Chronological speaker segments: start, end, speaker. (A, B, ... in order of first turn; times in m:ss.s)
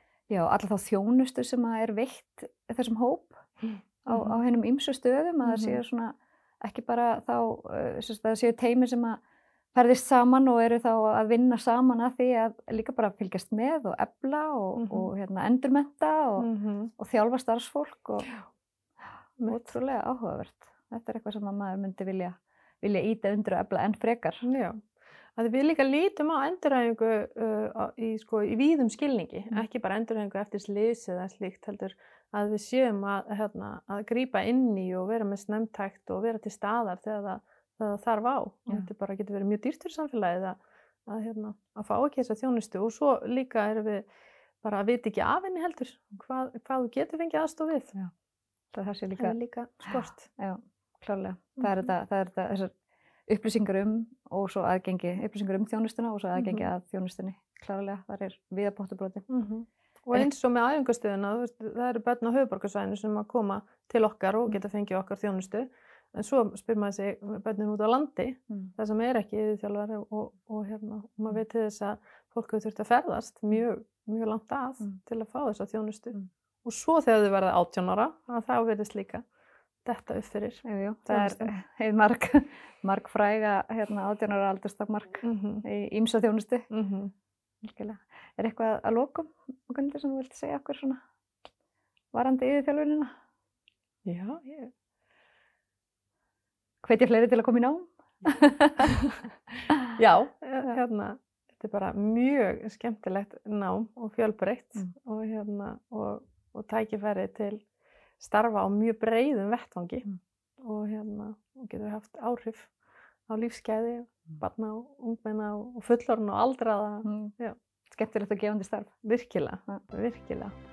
0:00.3-0:03.5 A
0:04.0-0:09.2 A
0:04.1-0:04.4 B
0:05.4-0:05.8 B
0:09.7-0:18.3 A
0:14.8-0:15.1 B
0:16.4-0:16.9 B
0:19.4-0:19.7 B
0:19.5-0:24.4 A
0:24.4-0:24.8 B
0:25.4-0:44.1 B
0:44.6-0:47.9 B
0:48.7-0:49.3 A
0:49.1-0:50.3 B
0:49.8-0:52.7 A
0:53.3-0:59.2 A
0:56.4-0:56.6 B
0:59.3-1:19.2 B
1:19.8-1:21.5 B
1:20.6-1:26.7 A
1:25.2-1:25.6 B
1:26.7-1:27.1 B
1:27.6-1:31.0 A
1:32.1-1:33.1 A
1:34.0-1:34.7 B
1:36.8-1:39.1 A
1:39.9-1:47.6 B
1:48.2-1:52.7 B
1:53.3-1:57.6 B
1:57.0-1:57.3 A
1:57.9-1:58.9 A
1:59.0-2:00.5 B